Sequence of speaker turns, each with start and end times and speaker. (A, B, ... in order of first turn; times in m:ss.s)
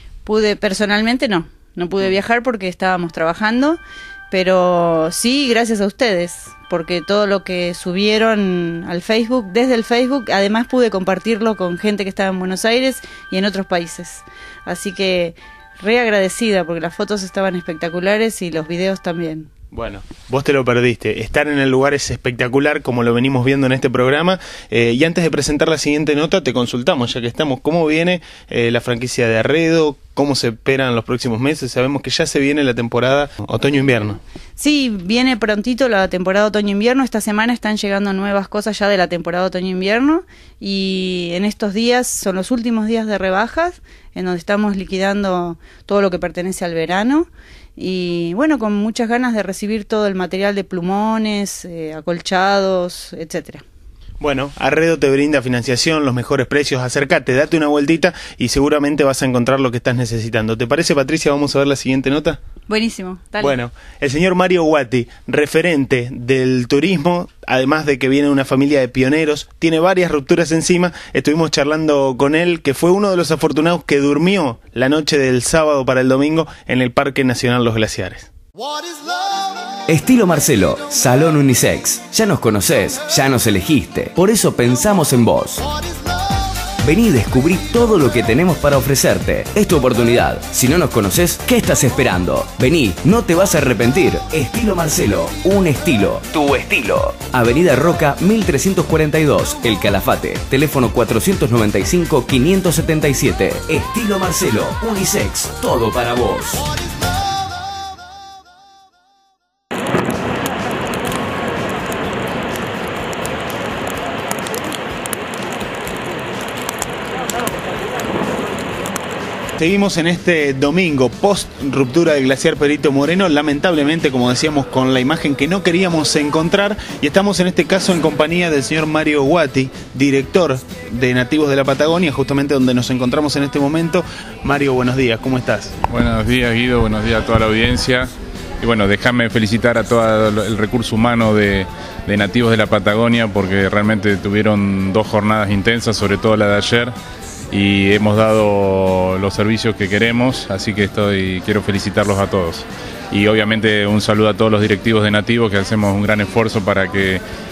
0:00.2-0:19.5 A
0:19.7-0:34.2 B
0:34.6-0:53.6 A
0:54.2-1:02.4 B
1:02.7-1:03.6 A
1:03.4-1:18.3 B
1:19.9-1:25.7 C
1:26.8-1:46.7 C
1:59.6-2:15.7 B
2:15.9-2:26.9 D
2:27.5-2:37.2 D